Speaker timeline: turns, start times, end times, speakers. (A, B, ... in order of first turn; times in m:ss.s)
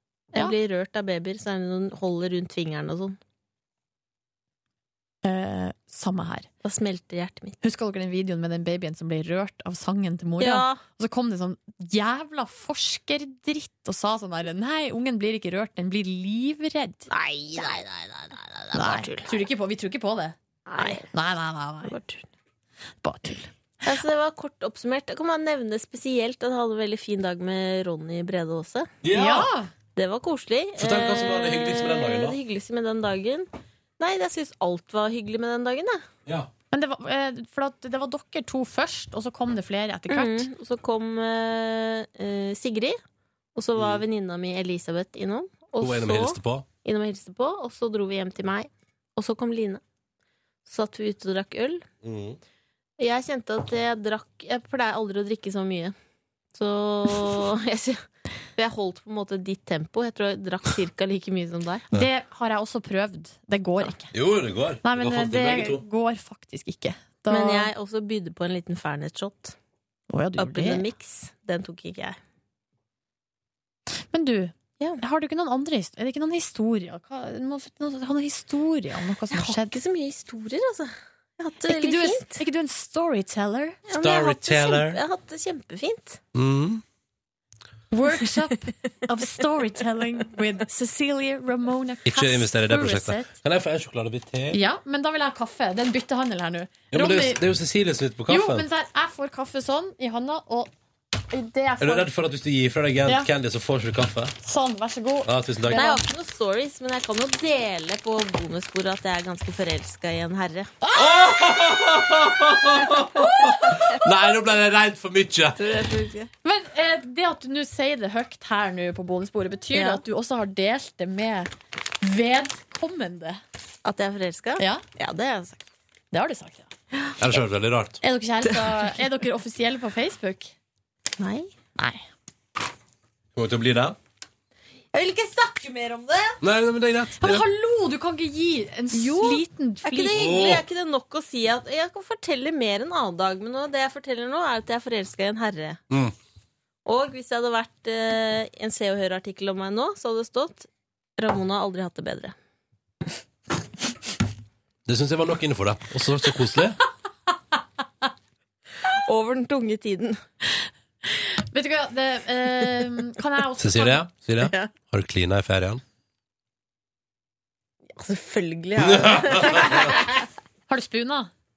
0:00.3-0:03.2 A
0:05.2-0:06.5 B
0:06.6-0:07.6 A
0:07.6-0:17.1 B
0:10.4-0:10.8 A
0:17.1-0:19.4 A
0:18.7-0:22.0 B
0:20.7-0:21.1 A
0:21.8-0:22.2 A
0:23.0-0:23.5 B
0:23.8-0:29.0 A
0:29.0-0:29.5 C
0:29.1-0:29.7 B
0:30.0-0:33.5 A
0:30.8-0:32.4 C
0:34.0-0:36.0 A
0:36.7-0:40.5 B
0:40.1-0:43.0 A
0:43.6-0:49.8 A
0:43.8-0:44.0 C
0:45.8-0:46.7 C
0:50.7-0:51.9 A
0:52.0-0:52.4 C
0:53.0-0:56.0 A
0:56.5-0:58.0 A
0:58.6-1:01.9 A
1:01.9-1:04.1 B
1:04.1-1:05.8 C
1:04.8-1:07.7 B
1:07.3-1:09.6 A
1:10.1-1:10.9 B
1:10.4-1:12.2 A
1:14.1-1:19.8 B
1:19.3-1:22.4 A
1:21.7-1:23.8 B
1:23.9-1:26.2 A
1:24.0-1:25.0 C
1:26.3-1:26.8 C
1:27.9-1:33.3 B
1:32.1-1:34.6 C
1:34.5-1:37.4 B
1:36.9-1:38.7 C
1:38.3-1:40.7 B
1:41.3-1:42.1 B
1:41.8-1:44.3 C
1:44.4-1:46.0 B
1:45.2-1:45.8 C
1:45.7-1:50.7 A
1:50.9-1:55.8 C
1:55.6-1:56.3 A
1:56.4-2:01.5 B
1:59.7-2:00.0 A
2:02.0-2:03.4 B
2:03.8-2:05.7 A
2:06.1-2:06.7 B
2:07.2-2:08.0 C
2:08.0-2:10.5 B
2:08.4-2:09.0 A
2:11.2-2:11.5 A
2:11.8-2:12.0 B
2:13.3-2:14.0 C
2:14.9-2:16.4 A
2:16.4-2:17.5 C
2:17.2-2:20.3 B
2:18.9-2:25.8 A
2:20.1-2:20.6 C
2:26.9-2:32.4 A
2:34.9-2:36.8 C
2:38.9-2:40.2 A
2:41.1-2:44.0 B
2:43.6-2:45.8 C
2:44.4-2:44.7 A
2:47.9-2:50.2 A
2:48.8-2:49.9 C
2:50.7-2:51.3 B